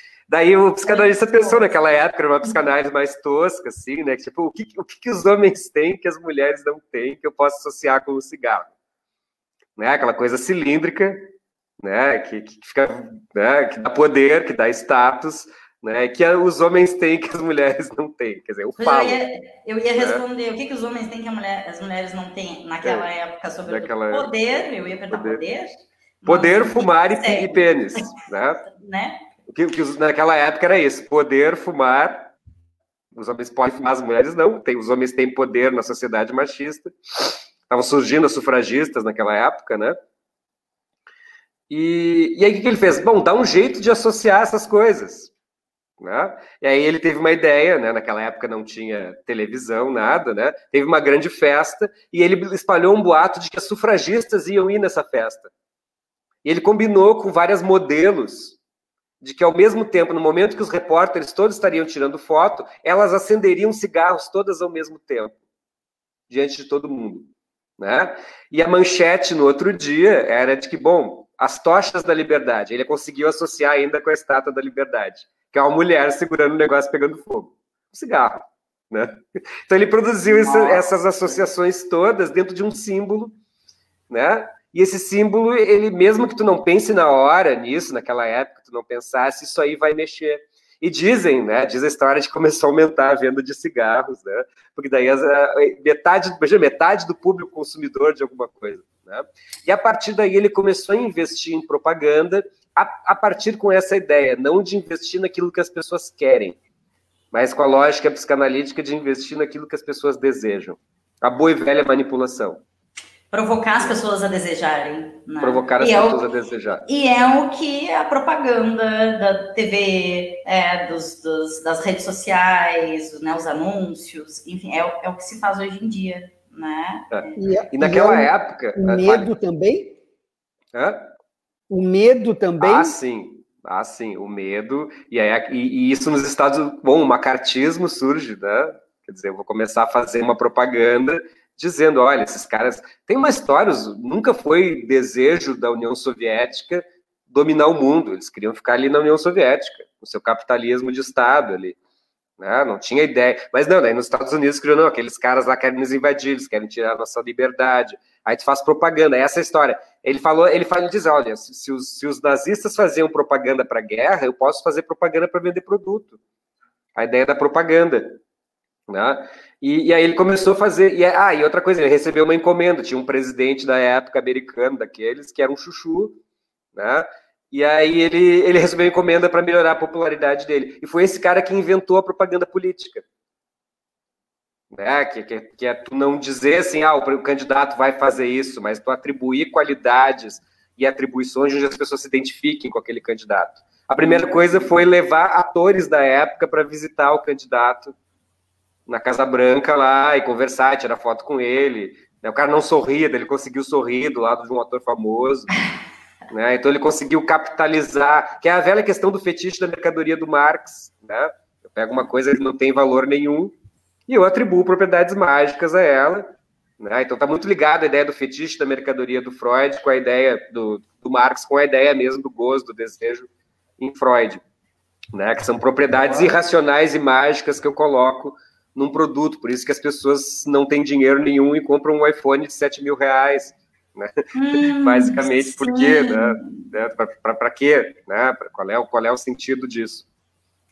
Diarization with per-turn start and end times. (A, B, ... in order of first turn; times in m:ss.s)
0:00.3-0:08.7 A
0:00.8-0:02.0 B
0:09.8-0:19.2 A
0:18.8-0:29.3 B
0:20.0-0:20.2 A
0:23.7-0:24.3 A
0:25.1-0:25.4 A
0:26.3-0:28.6 A
0:29.5-0:32.3 A
0:33.2-0:40.0 A
0:41.7-0:45.3 A
0:46.0-0:55.5 A
0:56.4-0:58.6 A
0:59.2-1:05.4 A
1:06.3-1:23.4 A
1:20.2-1:21.4 B
1:24.1-1:46.6 A
1:47.3-1:52.6 A
1:53.3-1:56.2 B
1:55.4-1:56.8 A
1:56.8-2:07.3 B
2:07.1-2:09.3 A
2:07.4-2:10.0 C
2:10.7-2:11.1 A
2:11.7-2:13.0 C
2:12.6-2:31.8 A
2:32.4-2:46.2 A
2:47.0-2:48.2 A
2:48.9-2:56.2 A
2:56.8-3:03.0 A
3:04.7-3:17.9 A
3:14.0-3:14.7 B
3:18.9-3:25.5 A
3:26.3-3:33.6 A
3:34.1-3:36.3 A
3:36.8-3:43.3 A
3:43.8-3:44.4 A
3:45.1-4:00.1 A
3:46.0-3:46.3 B
3:54.3-3:56.7 B